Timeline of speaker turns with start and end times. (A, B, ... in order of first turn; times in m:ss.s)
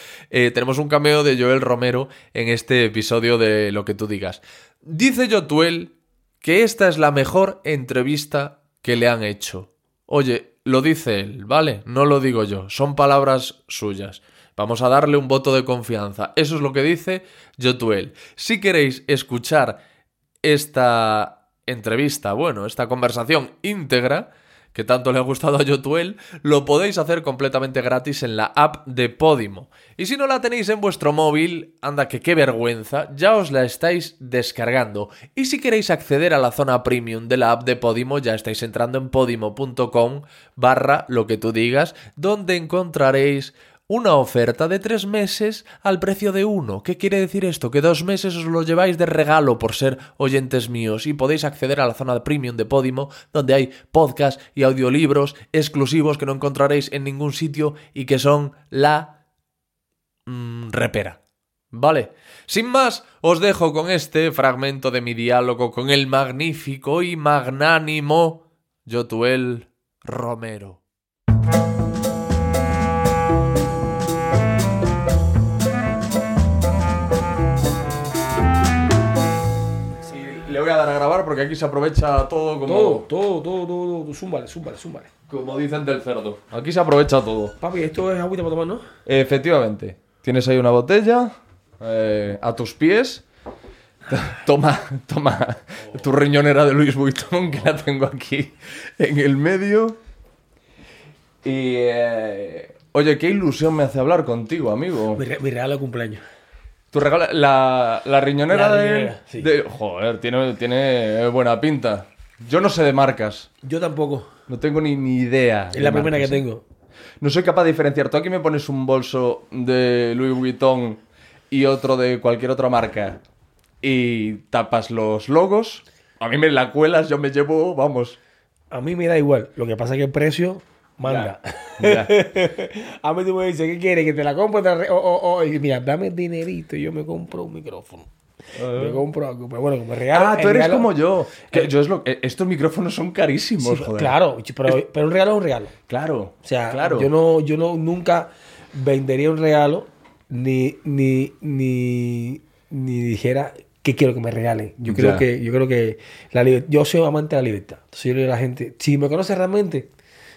0:00.3-0:19.8 A
0:20.4-0:59.1 A
1:00.3-1:01.2 A
1:01.7-1:10.8 A
1:20.1-1:23.0 A
1:22.7-1:25.1 B
1:25.3-1:27.6 A
1:27.6-1:28.9 B
1:29.1-1:33.2 A
1:34.1-1:40.0 A
1:41.4-1:45.2 A
1:45.2-1:46.2 B
1:46.9-1:53.5 A
1:48.5-1:49.5 B
1:53.6-1:54.3 B
1:54.5-1:56.4 A
1:55.7-1:56.6 B
1:57.2-2:01.0 A
2:01.5-2:03.2 A
2:03.8-2:08.2 A
2:08.7-2:18.1 B
2:11.0-2:12.1 A
2:18.6-2:19.0 A
2:18.7-2:20.9 B
2:20.1-2:24.1 A
2:23.6-2:25.7 B
2:25.9-2:27.1 A
2:26.4-2:39.9 B
2:34.9-2:35.2 A